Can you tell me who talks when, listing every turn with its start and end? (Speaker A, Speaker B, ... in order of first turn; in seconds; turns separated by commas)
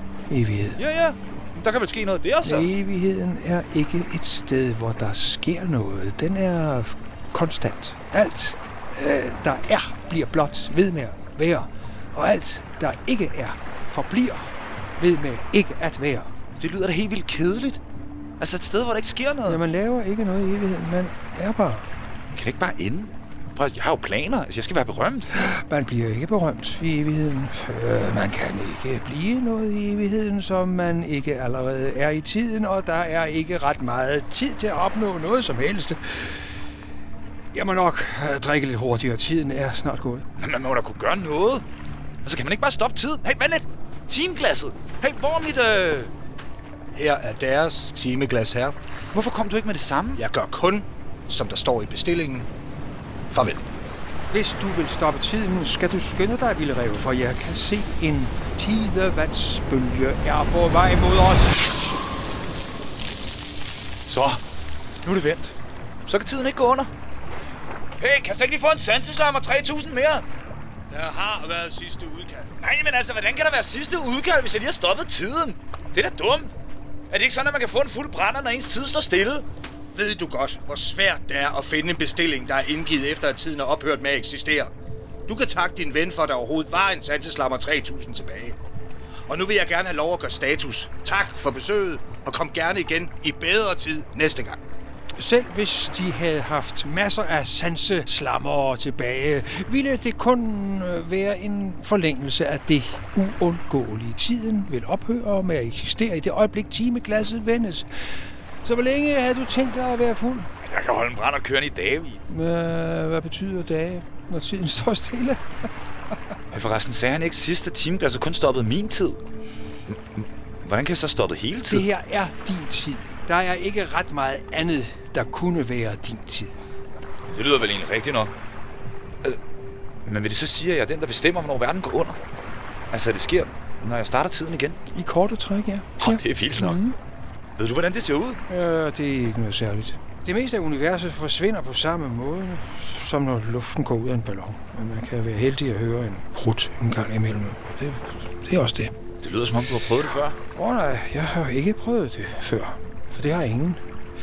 Speaker A: 0.3-0.8, Speaker B: 0.8-2.7, Speaker A: 2.4-16.3, Speaker B: 16.6-17.8, Speaker B: 18.4-19.6, Speaker A: 19.5-21.9, Speaker B: 22.4-25.3, Speaker A: 25.4-36.5, Speaker A: 37.5-40.3, Speaker B: 40.4-41.6, Speaker B: 42.2-46.1, Speaker C: 46.9-48.8, Speaker B: 49.1-50.2, Speaker C: 50.2-52.5, Speaker C: 53.3-53.6, Speaker A: 54.3-61.7, Speaker B: 64.1-64.4, Speaker B: 65.0-65.5, Speaker B: 66.1-66.9, Speaker B: 68.0-70.2, Speaker C: 70.9-72.5, Speaker B: 72.6-76.5, Speaker B: 77.1-79.5, Speaker C: 80.0-84.7, Speaker C: 85.3-88.6, Speaker C: 89.3-94.6, Speaker A: 95.2-107.9, Speaker A: 108.6-110.5, Speaker B: 110.6-112.2, Speaker A: 112.3-115.4, Speaker B: 116.5-119.2, Speaker B: 119.9-121.8, Speaker A: 121.7-126.5, Speaker B: 127.3-128.3, Speaker B: 130.1-132.2, Speaker B: 132.9-134.8, Speaker A: 134.9-137.0, Speaker B: 136.0-136.8, Speaker B: 137.6-138.4, Speaker A: 138.5-148.9, Speaker B: 149.2-150.4, Speaker A: 150.6-153.8